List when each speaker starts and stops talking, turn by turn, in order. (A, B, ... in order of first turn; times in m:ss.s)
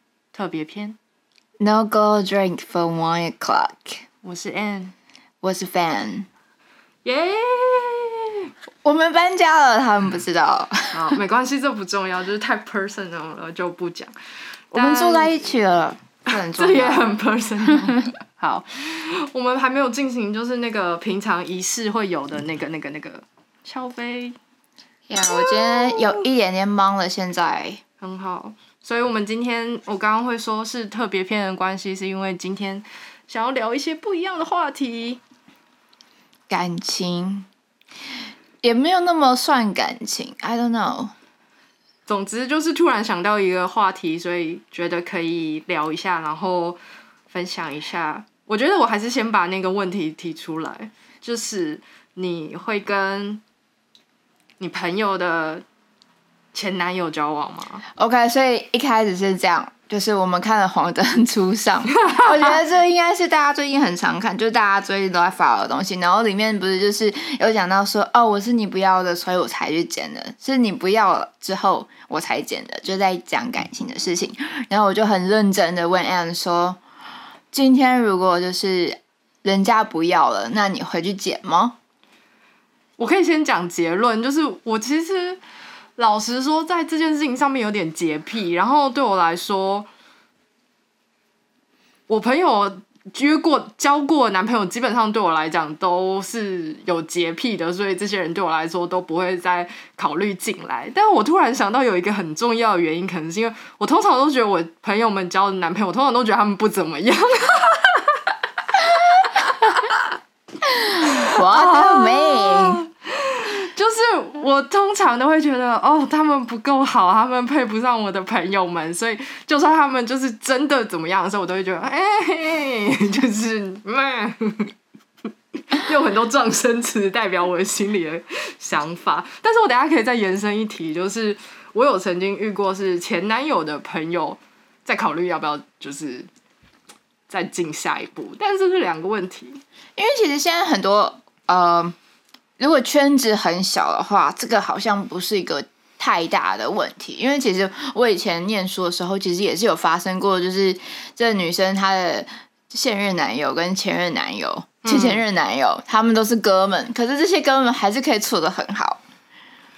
0:00.3-0:01.0 A
0:01.6-0:04.0 B
0:04.2-0:04.9 A
0:05.4-0:06.3 B
0:07.0-0:08.5 A
0:08.8-0:11.1 B
0:10.9-0:14.1 A
0:14.7-0:15.5 A
0:14.7-0:17.1 B
0:16.3-0:24.4 A
0:25.1-0:27.8 B
0:25.3-0:26.2 A
0:28.0-0:35.2 A
0:36.5-0:37.5 B
0:38.6-0:41.1 B
0:42.1-0:53.4 A
0:54.6-0:55.6 A
0:56.5-0:57.8 A
0:58.0-1:16.8 B
1:02.0-1:02.6 A
1:17.5-1:21.8 B
1:23.0-1:25.4 A
1:26.0-1:29.9 A
1:32.1-1:48.2 A
1:48.8-1:50.0 A
1:50.6-1:52.8 B
1:51.0-2:04.7 A
2:05.7-2:16.3 A
2:17.3-2:19.6 A
2:20.0-2:21.9 B
2:22.6-2:39.0 B
2:34.8-2:35.2 A